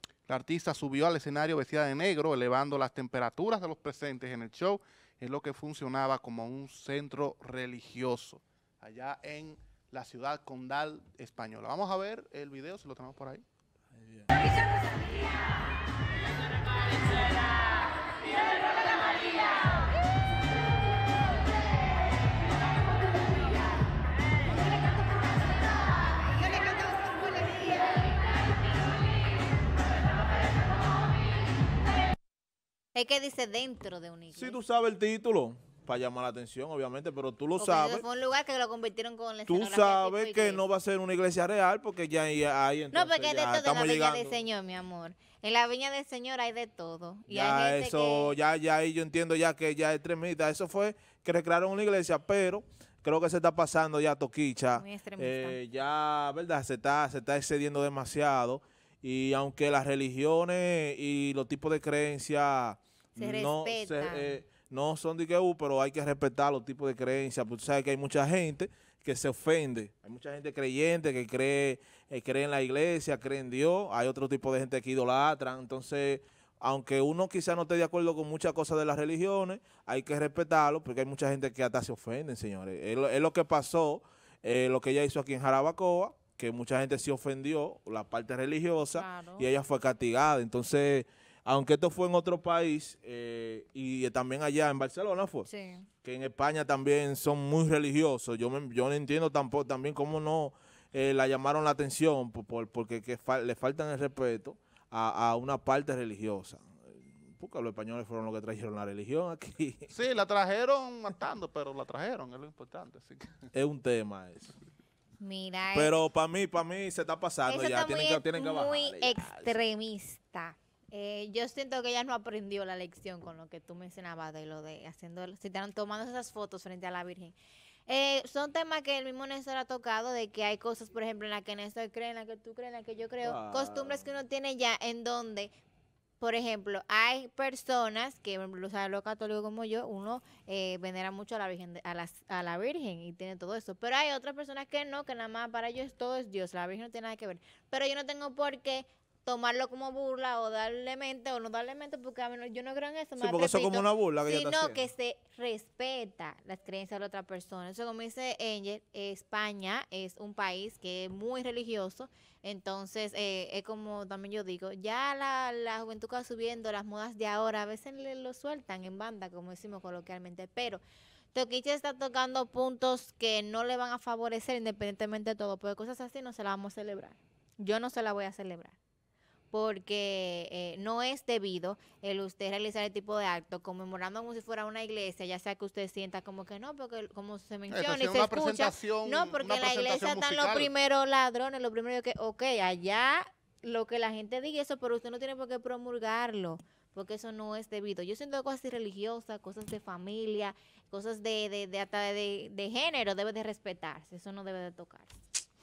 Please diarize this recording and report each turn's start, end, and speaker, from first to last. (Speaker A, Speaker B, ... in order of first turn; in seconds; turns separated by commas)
Speaker A: 0.3-13.4, Speaker B: 13.9-14.3, Speaker C: 33.0-34.6, Speaker B: 34.3-38.0, Speaker C: 37.6-40.6, Speaker B: 39.5-44.4, Speaker C: 42.9-48.4, Speaker B: 47.3-95.5, Speaker C: 54.7-55.6, Speaker C: 63.2-64.4, Speaker C: 88.9-89.5, Speaker C: 95.5-95.9, Speaker B: 96.0-109.9, Speaker A: 109.9-113.4, Speaker B: 113.5-114.6, Speaker C: 115.2-115.9, Speaker B: 115.7-119.6, Speaker C: 117.5-127.3, Speaker C: 127.9-135.5, Speaker B: 133.2-134.1, Speaker C: 136.2-170.8, Speaker B: 153.2-154.8, Speaker C: 171.3-178.8, Speaker C: 179.5-205.2, Speaker A: 187.7-190.7